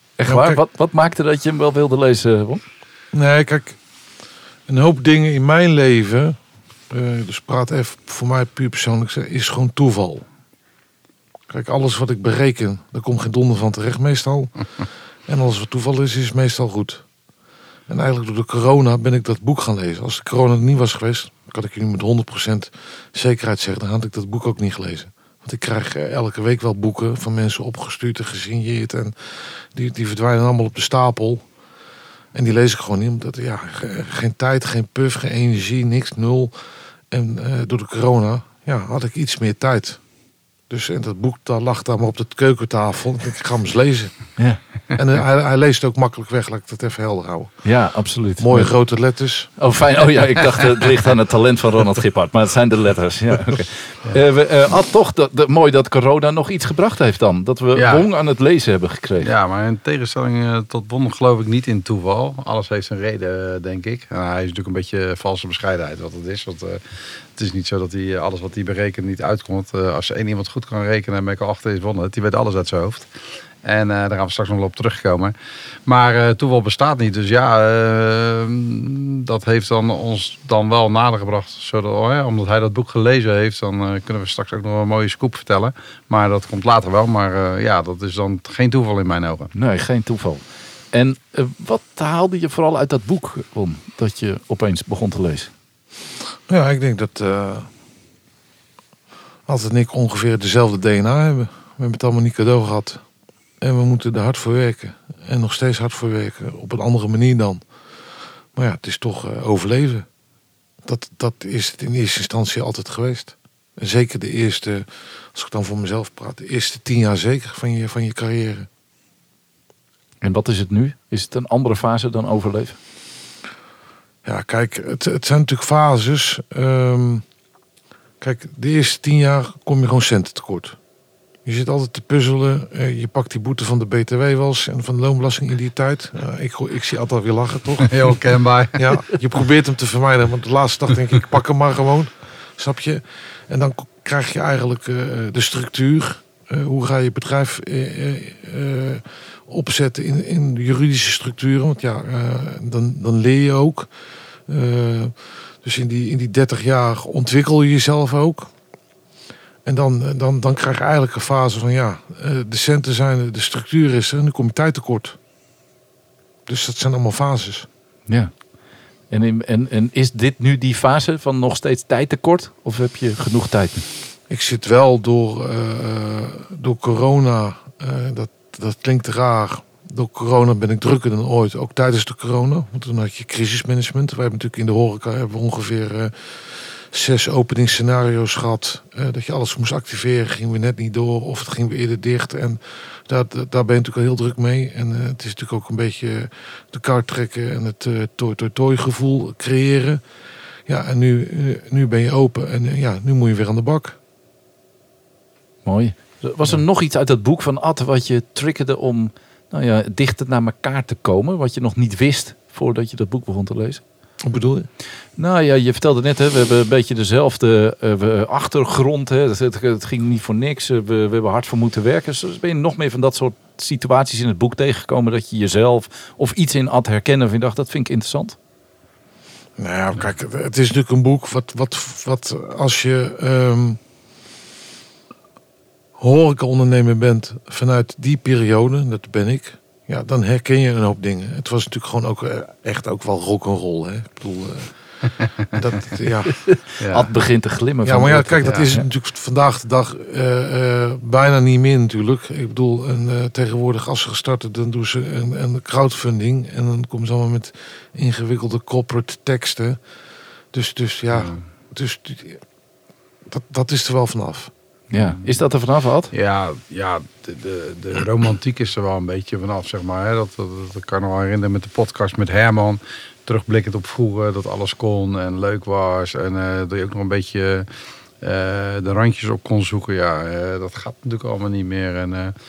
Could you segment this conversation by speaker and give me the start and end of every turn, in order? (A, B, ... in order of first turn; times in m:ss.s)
0:00.2-0:02.6 A
0:00.3-0:00.6 B
0:03.1-0:03.8 B
0:04.7-0:06.4 B
0:06.9-0:10.3 B
0:11.5-0:14.5 B
0:15.3-0:17.0 B
0:17.9-0:31.5 B
0:32.3-0:36.5 B
0:37.1-0:40.0 B
0:40.7-0:44.3 B
0:44.9-0:47.6 B
0:47.6-0:48.7 A
0:48.4-0:49.5 B
0:49.6-0:59.3 A
0:57.7-0:58.1 C
0:59.2-1:13.1 C
1:13.6-1:15.4 C
1:15.9-1:29.5 C
1:29.5-1:35.5 A
1:36.5-1:37.7 B
1:39.5-1:43.0 B
1:43.6-1:47.6 B
1:48.5-1:50.1 B
1:50.8-1:58.7 B
2:00.2-2:02.8 A
2:04.2-2:07.2 B
2:08.2-2:10.8 B
2:11.4-2:18.1 B
2:17.8-2:19.0 C
2:18.7-2:33.9 B
2:34.5-2:38.5 B
2:39.6-2:45.2 B
2:46.5-2:47.7 B
2:48.1-2:48.3 A
2:49.1-2:53.9 A
2:54.3-3:20.0 B
3:20.7-3:24.0 B
3:25.6-3:33.8 A
3:34.2-3:34.7 B
3:35.2-3:48.4 A
3:49.6-3:53.8 B
3:56.0-4:04.8 B
4:05.5-4:06.4 B
4:06.3-4:08.8 A
4:06.8-4:07.1 C
4:07.8-4:19.8 B
4:20.5-4:22.4 B
4:21.1-4:21.4 C
4:23.3-4:24.5 B
4:24.9-4:26.1 A
4:25.0-4:25.3 C
4:26.1-4:37.7 C
4:38.2-4:42.4 C